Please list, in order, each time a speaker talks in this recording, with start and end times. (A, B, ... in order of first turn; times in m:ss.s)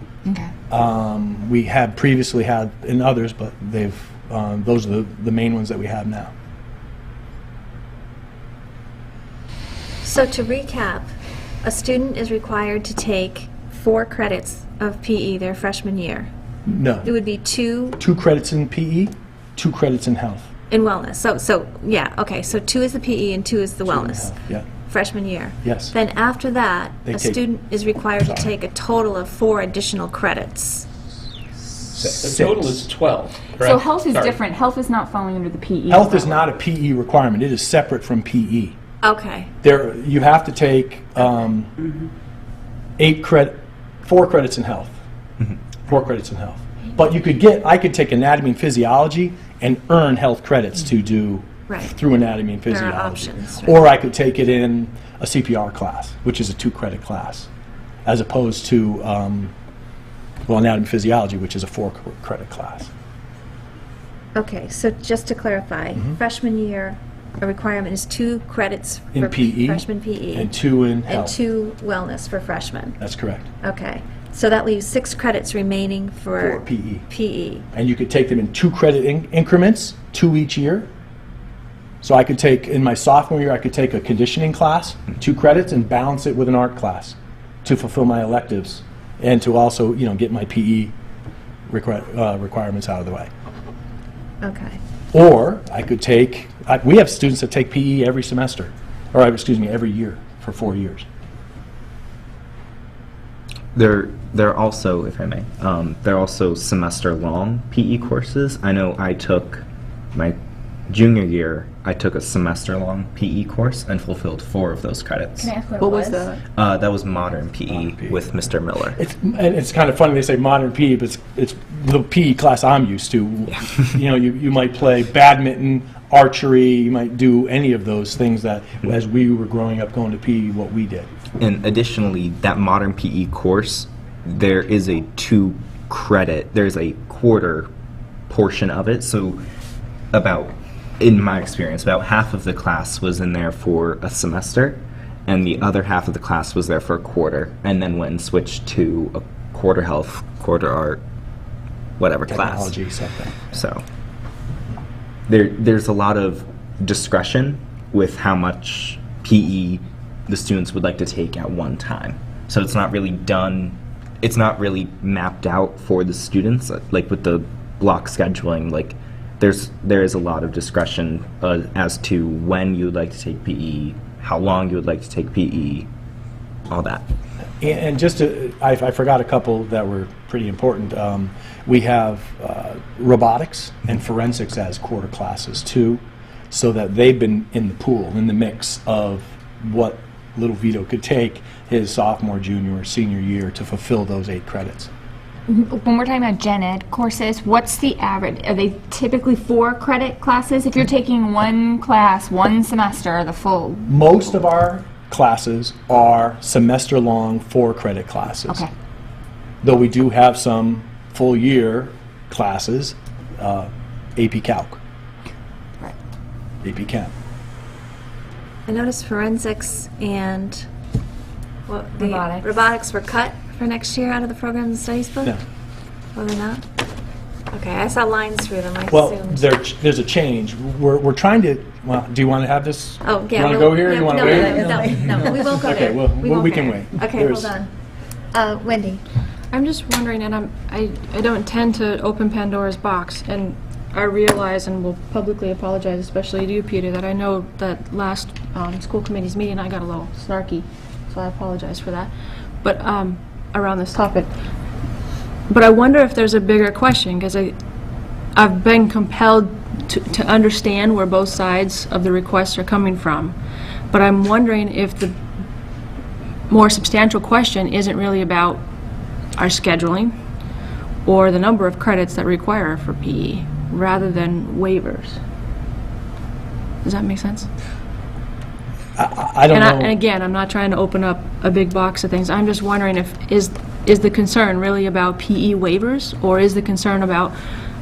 0:00.2-0:00.5 A
0:00.7-0:06.3 B
0:10.0-0:11.1 C
0:11.6-0:16.3 C
0:16.6-0:17.1 B
0:17.0-0:18.0 C
0:18.0-0:20.5 B
0:20.7-0:24.3 C
0:23.8-0:24.7 B
0:24.8-0:30.8 C
0:25.6-0:25.9 B
0:27.0-0:27.4 B
0:28.2-0:28.5 B
0:31.9-0:32.9 B
0:32.0-0:34.4 D
0:33.6-0:36.5 A
0:35.9-0:38.8 B
0:39.0-0:39.5 C
0:39.6-0:41.7 B
0:43.0-0:45.0 B
0:45.8-0:57.5 B
0:51.7-0:52.0 C
0:52.6-0:53.8 C
0:58.0-0:59.5 B
1:00.5-1:02.9 B
1:04.3-1:10.5 C
1:09.1-1:11.3 B
1:11.0-1:13.0 C
1:13.0-1:13.5 B
1:13.6-1:17.6 C
1:16.4-1:17.1 B
1:17.7-1:20.9 B
1:22.0-1:30.9 B
1:31.7-1:33.3 B
1:34.4-1:34.8 C
1:35.1-1:41.0 B
1:43.7-1:50.4 E
1:50.9-1:55.5 E
1:55.4-1:56.2 A
1:55.8-1:56.4 F
1:56.6-1:59.0 E
1:57.7-1:58.2 B
1:59.0-2:11.1 B
2:11.4-2:17.7 E
2:18.3-2:19.4 E
2:20.1-2:31.0 E
2:32.0-2:32.7 E
2:32.3-2:33.5 B
2:33.5-2:33.8 E
2:35.3-2:55.9 E
2:56.7-2:57.1 E
2:57.6-3:14.9 B
3:15.5-3:24.3 A
3:23.9-3:28.6 B
3:29.6-3:34.8 B
3:36.6-3:37.1 B
3:38.7-3:40.6 C
3:41.7-3:45.3 C
3:42.0-3:42.5 A
3:46.1-3:46.6 C
3:47.5-3:49.4 C
3:48.9-3:57.5 B
3:53.0-3:57.7 C
3:58.3-3:59.0 C
3:59.5-4:12.1 F
4:12.6-4:14.3 F
4:15.5-4:17.5 F
4:18.3-4:23.4 F
4:23.9-4:25.2 F
4:26.5-4:28.6 F
4:29.4-4:30.1 F
4:31.0-4:35.2 F
4:36.8-4:37.5 F
4:39.0-4:39.9 B
4:39.5-4:47.3 F